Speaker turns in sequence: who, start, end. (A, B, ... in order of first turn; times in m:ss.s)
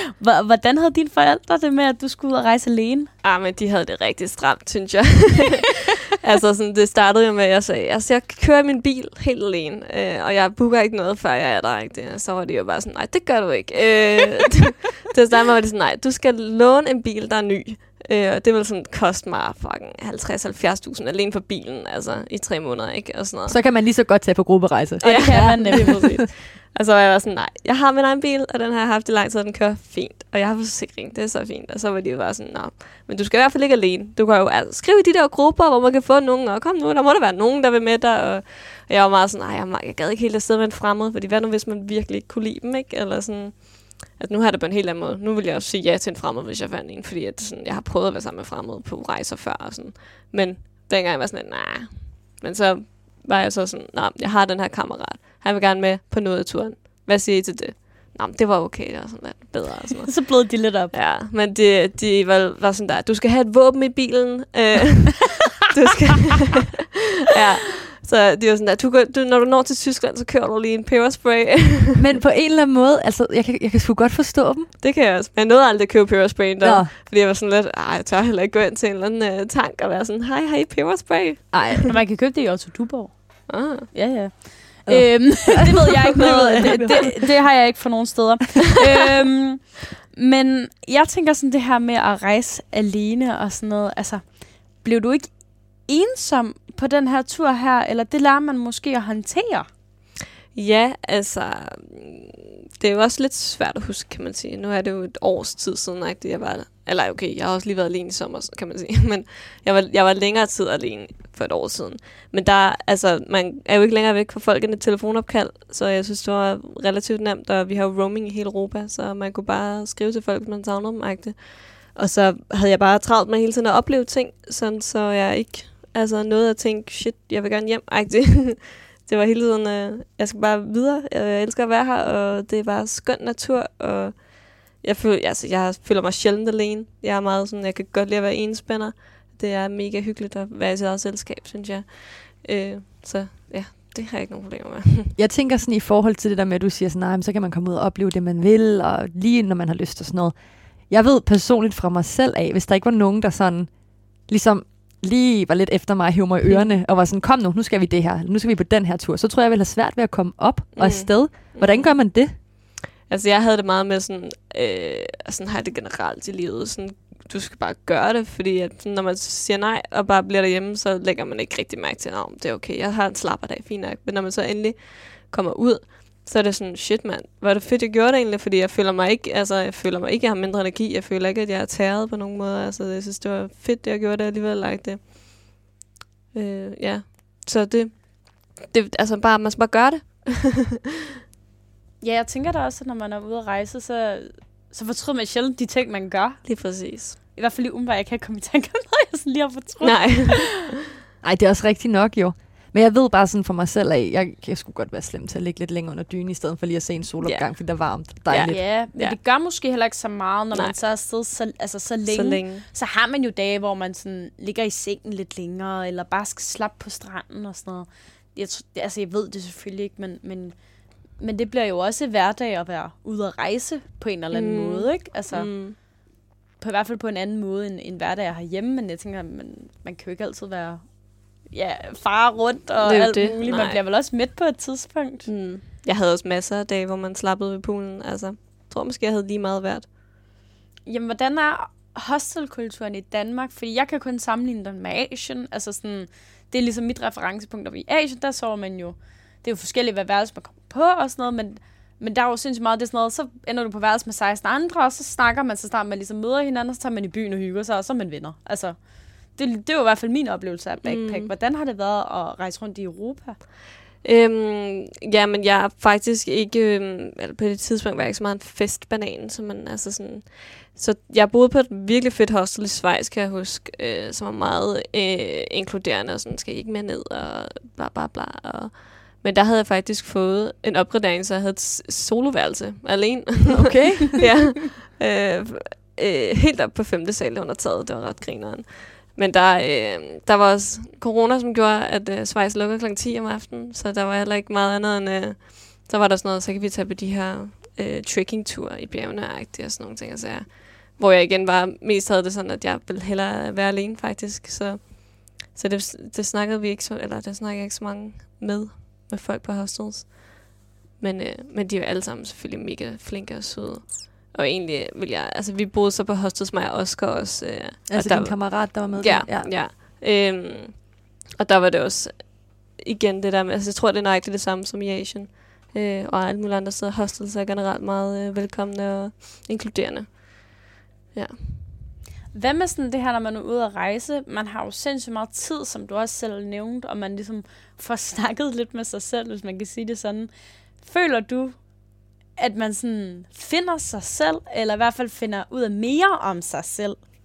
0:00.2-0:03.1 A
0:03.2-0:23.6 B
0:23.5-0:26.2 C
0:25.0-1:06.7 B
0:25.1-0:26.0 A
1:00.1-1:00.9 A
1:07.3-1:12.0 B
1:12.0-1:14.7 C
1:14.8-1:21.9 B
1:16.6-1:16.9 C
1:21.5-1:21.9 C
1:21.9-1:39.7 A
1:23.5-1:24.0 B
1:24.8-1:27.2 C
1:25.9-1:27.0 B
1:40.5-2:25.2 B
2:25.2-2:42.4 C
2:40.8-2:42.5 B
2:43.1-3:05.6 B
3:06.3-3:10.7 B
3:12.0-3:20.5 A
3:16.4-3:17.2 B
3:19.8-3:20.7 B
3:21.2-3:28.7 C
3:27.2-3:29.2 B
3:28.4-3:45.9 A
3:30.5-3:30.8 B
3:32.1-3:32.7 B
3:44.3-3:45.8 B
3:46.6-3:55.3 A
3:52.8-3:53.8 B
3:55.2-3:59.9 B
4:00.8-4:23.4 A
4:20.8-4:21.3 B
4:24.0-5:31.6 B
4:43.5-4:44.2 C
5:17.9-5:19.5 C
5:32.3-5:47.0 A